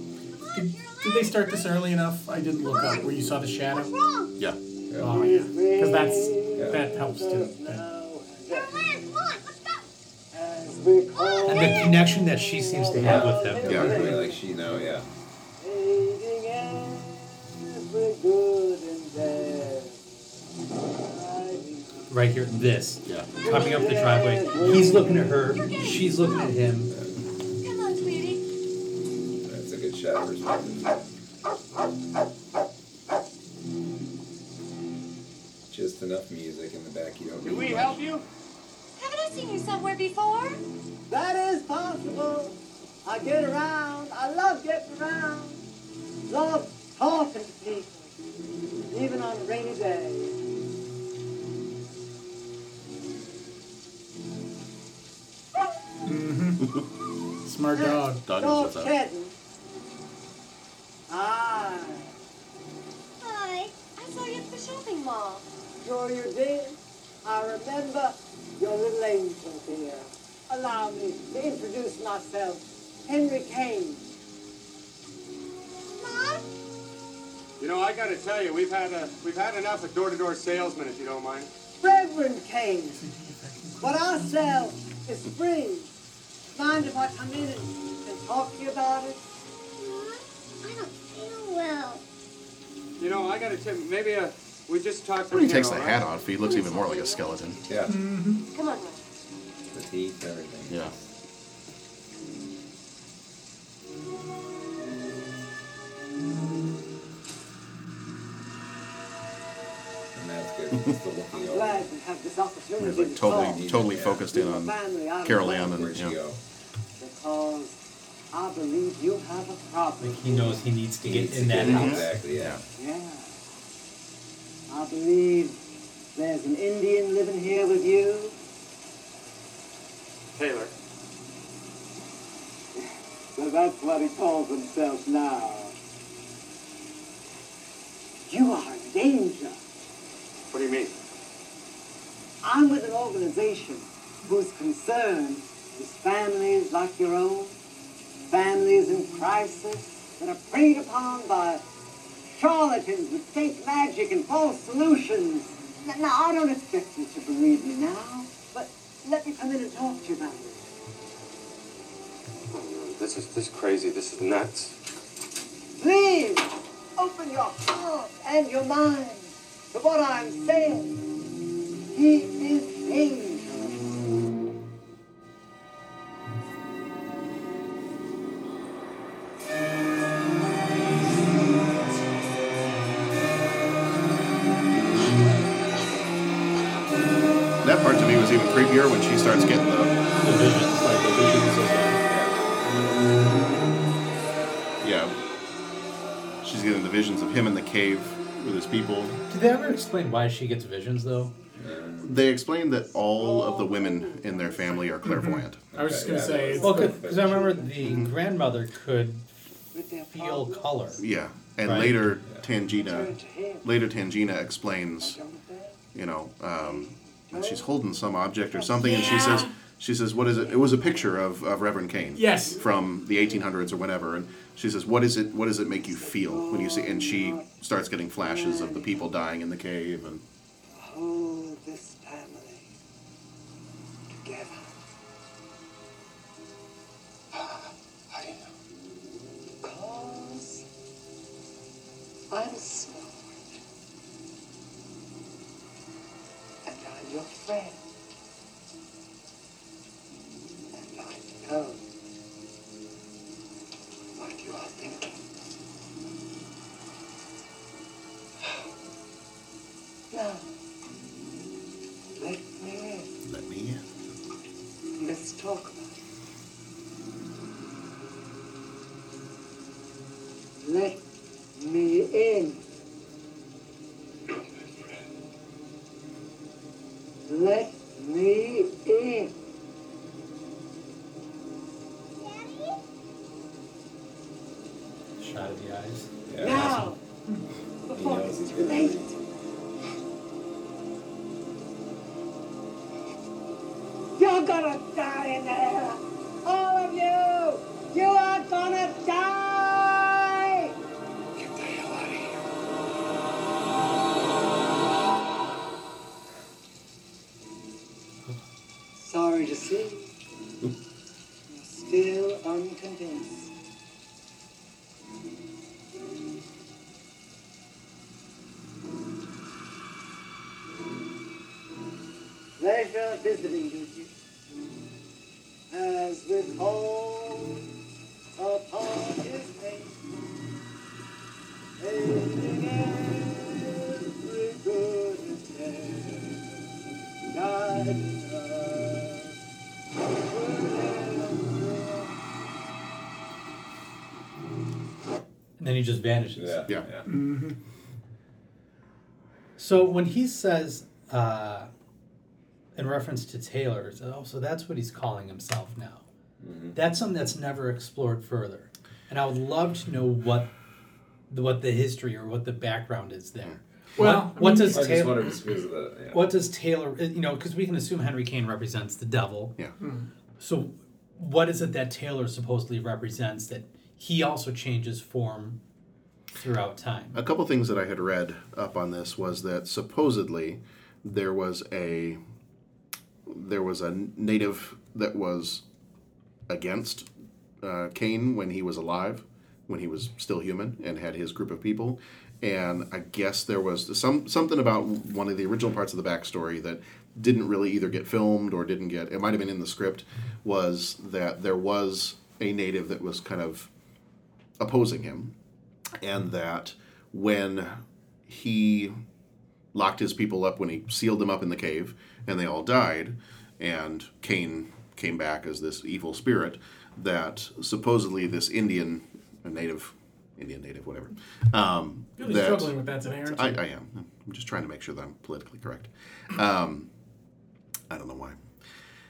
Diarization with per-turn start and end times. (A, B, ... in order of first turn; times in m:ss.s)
0:00.4-0:01.7 A
0:00.5-0:03.9 B
0:02.7-0:03.0 A
0:03.7-0:04.3 A
0:04.9-0:05.2 C
0:05.0-0:07.8 B
0:05.0-0:08.9 D
0:06.5-0:06.8 C
0:08.5-0:09.8 A
0:10.3-0:14.4 D
0:11.1-0:12.0 A
0:11.4-0:13.8 E
0:13.0-0:15.0 C
0:13.7-0:14.0 F
0:15.6-0:20.0 D
0:20.9-0:22.1 D
0:22.1-0:26.9 E
0:23.4-0:25.5 D
0:25.6-0:26.5 A
0:26.9-0:27.2 C
0:27.6-0:28.4 A
0:29.4-0:31.0 C
0:35.7-0:38.1 C
0:37.4-0:38.2 G
0:39.0-0:40.6 A
0:41.1-0:45.6 D
0:46.3-0:48.1 D
0:48.9-0:50.4 D
0:56.0-0:56.7 B
0:57.4-0:58.2 B
0:57.7-0:59.3 D
0:58.2-0:58.9 F
1:01.1-1:02.1 D
1:03.2-1:05.4 A
1:05.8-1:14.1 D
1:16.0-1:16.4 D
1:16.0-1:16.3 A
1:17.6-1:21.5 G
1:21.8-1:23.0 D
1:22.9-1:24.3 B
1:23.8-1:25.9 D
1:26.5-1:29.2 D
1:29.8-1:32.0 A
1:33.0-1:36.0 G
1:35.3-1:37.6 F
1:36.4-1:37.4 A
1:37.7-1:37.9 C
1:37.8-1:38.4 B
1:38.5-1:39.0 A
1:39.7-1:41.0 C
1:40.7-1:40.9 F
1:50.1-1:51.9 C
1:51.3-1:53.6 D
1:52.8-1:56.2 F
1:53.2-1:54.3 C
1:54.2-1:55.8 D
1:55.5-1:56.4 C
1:57.0-1:57.8 D
1:58.3-2:00.7 D
2:00.0-2:02.1 E
2:01.0-2:02.6 C
2:01.6-2:02.6 F
2:02.8-2:03.3 D
2:04.7-2:05.6 D
2:06.1-2:08.4 D
2:10.4-2:10.7 G
2:13.4-2:15.7 D
2:18.3-2:19.6 D
2:20.5-2:20.9 G
2:22.4-2:27.6 D
2:28.3-2:31.6 D
2:32.3-2:40.7 D
2:45.8-2:51.0 D
2:51.9-2:53.8 D
3:07.6-3:10.0 F
3:10.2-3:12.0 E
3:12.1-3:12.4 C
3:14.8-3:15.1 F
3:16.4-3:19.2 F
3:19.3-3:21.3 E
3:21.6-3:22.1 C
3:22.0-3:25.6 F
3:23.0-3:24.9 D
3:25.0-3:27.0 B
3:25.7-3:27.3 C
3:26.3-3:28.0 D
3:26.6-3:29.2 E
3:27.8-3:28.1 F
3:29.7-3:31.0 D
3:30.1-3:31.0 E
3:31.0-3:35.2 F
3:31.6-3:32.0 E
3:32.8-3:33.6 D
3:35.0-3:35.8 D
3:35.9-3:50.2 F
3:36.6-3:37.7 D
3:38.5-3:39.4 D
3:38.9-3:39.5 B
3:42.1-3:42.6 B
3:45.9-3:47.5 D
3:48.2-3:49.0 D
3:50.7-3:52.7 D
3:54.1-3:54.7 D
3:57.3-3:58.5 D
3:59.6-4:00.6 D
4:02.3-4:03.4 D
4:06.6-4:07.8 D
4:10.7-4:11.8 D
4:14.2-4:15.2 D
4:20.1-4:20.5 D
4:22.2-4:23.1 D
4:23.2-4:23.8 F
4:25.0-4:25.9 D
4:30.6-4:31.0 D
4:31.6-4:32.6 D
4:34.3-4:34.9 D
4:37.3-4:39.3 D
4:42.2-4:42.7 A
4:45.2-4:46.9 E
4:46.3-4:46.8 C
4:46.4-4:47.0 D
4:47.9-4:49.2 D
4:47.9-4:49.1 C
4:54.2-5:00.7 D
5:01.4-5:02.4 D
5:09.0-5:10.1 D
5:11.5-5:13.5 D
5:22.6-5:24.1 D
5:25.7-5:27.6 D
5:28.4-5:30.0 D
5:31.8-5:36.5 D
5:37.3-5:39.3 D
5:40.1-5:42.2 D
5:45.6-5:46.6 E
5:46.4-5:47.0 C
5:47.0-5:47.6 B
5:49.6-5:51.7 E
5:52.7-5:56.0 E
5:56.4-5:56.8 C
5:56.7-6:00.5 E
6:01.3-6:05.3 E
6:04.0-6:04.8 B
6:04.7-6:06.3 C
6:06.1-6:09.5 E
6:09.8-6:10.1 B
6:10.4-6:15.6 E
6:16.4-6:17.2 E
6:17.1-6:22.2 F
6:23.3-6:25.6 F
6:26.5-6:27.1 F
6:27.6-6:43.7 F
6:44.6-6:45.3 F
6:46.0-6:48.9 F
6:49.7-7:02.7 F
7:02.2-7:03.6 B
7:03.3-7:06.9 F
7:07.9-7:08.4 F